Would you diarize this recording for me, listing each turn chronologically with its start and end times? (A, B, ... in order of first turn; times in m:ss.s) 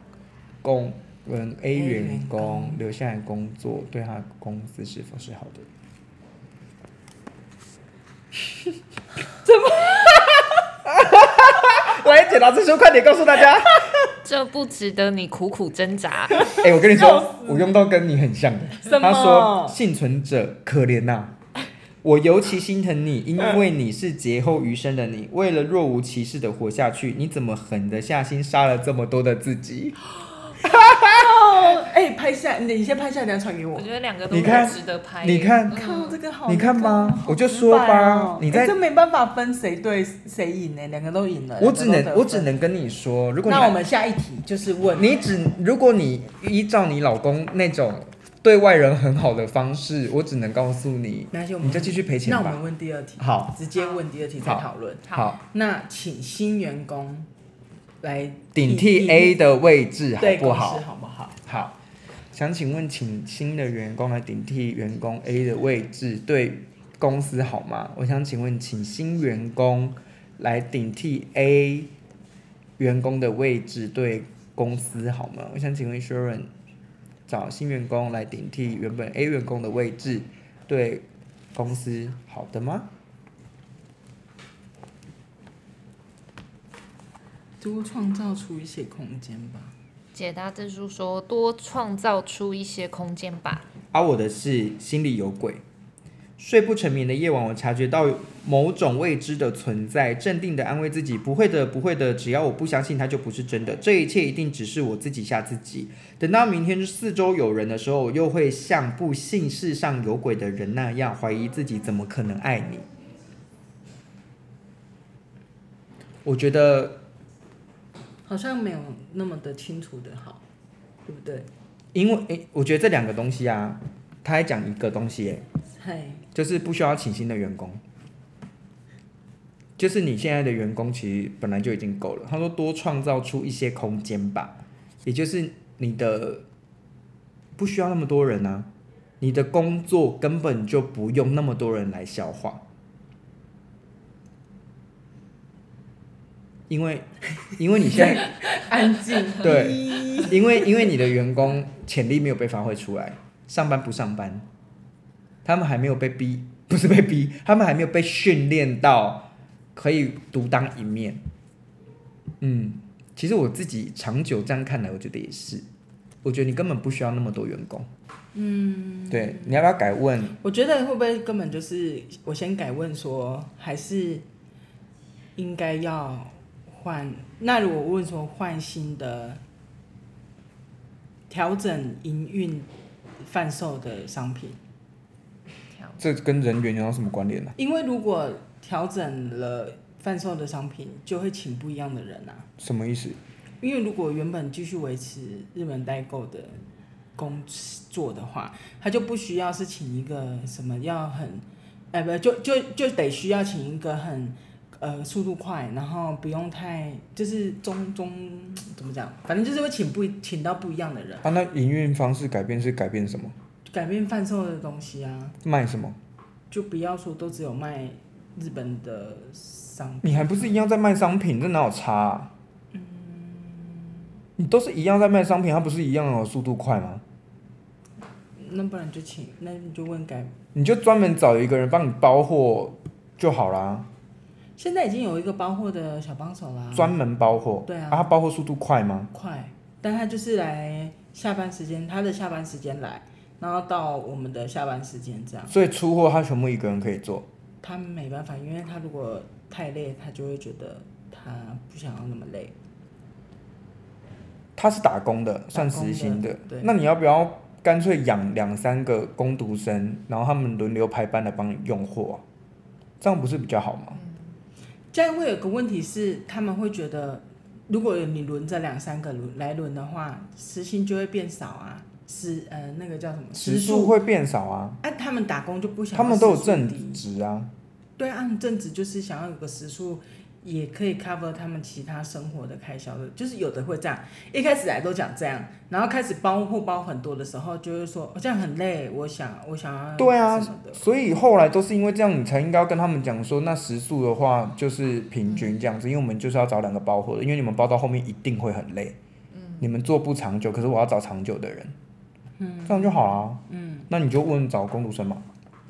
0:00.6-0:05.7 A
0:01.7-0:02.8 B
0:09.4-0:10.6 B
0:10.8-0:13.9 A
0:14.2-0:16.6 C
0:16.4-0:17.7 B
0:16.5-0:21.3 A
0:18.8-0:19.8 B
0:22.0-0:30.0 A
0:30.6-0:31.3 A
0:30.6-0:33.9 B
0:33.7-0:36.2 C
0:34.3-0:35.8 A
0:35.7-0:42.5 B
0:36.5-0:38.7 A
0:41.6-0:43.8 A
0:43.4-0:45.1 B
0:45.0-0:52.6 A
0:51.3-0:57.3 B
0:53.2-0:53.6 A
0:54.4-0:55.4 A
0:58.0-0:59.4 B
0:58.5-1:00.8 A
1:00.2-1:01.4 B
1:01.4-1:01.8 A
1:02.3-1:11.9 A
1:12.8-1:16.5 A
1:17.3-1:22.9 A
1:27.6-1:29.7 B
1:30.1-1:33.6 C
1:33.9-1:35.6 A
1:36.4-1:52.8 A
1:56.2-1:57.0 A
1:58.2-2:00.4 B
2:01.0-2:01.5 B
2:01.9-2:05.4 A
2:05.8-2:06.2 B
2:06.3-2:07.8 A
2:09.8-2:16.4 A
2:17.6-2:22.6 A
2:26.7-2:28.4 A
2:27.9-2:30.7 B
2:29.4-2:34.4 A
2:35.4-2:41.2 A
2:42.4-2:45.6 A
2:46.2-2:47.9 A
2:48.3-2:49.5 B
2:49.1-2:50.4 A
2:50.4-2:54.2 B
2:55.4-2:59.4 B
3:01.3-3:02.7 B
3:03.2-3:04.6 B
3:05.7-3:06.0 C
3:06.0-3:07.5 A
3:07.6-3:12.5 B
3:12.6-3:13.2 A
3:13.6-3:16.6 B
3:17.2-3:31.3 B
3:31.2-3:33.4 A
3:33.7-3:35.4 B
3:35.4-3:36.0 A
3:36.5-3:40.5 B
3:40.0-3:42.3 A
3:42.7-3:44.0 B
3:44.4-3:47.0 A
3:48.4-3:50.3 B
3:50.5-3:53.9 A
3:54.6-3:57.0 B
3:56.7-3:59.1 A
3:57.6-3:58.1 B
3:59.1-4:05.6 B
4:05.5-4:07.3 A
4:07.6-4:12.5 B
4:14.6-4:22.2 A
4:15.5-4:16.7 B
4:23.0-4:24.0 A
4:24.9-4:34.0 B
4:33.3-4:34.8 A
4:34.8-4:37.0 B
4:35.9-4:37.5 A
4:38.0-4:50.8 B
4:50.0-4:59.0 A
4:59.3-4:59.7 C
4:59.6-5:01.7 A
5:02.4-5:03.9 B
5:02.6-5:05.2 A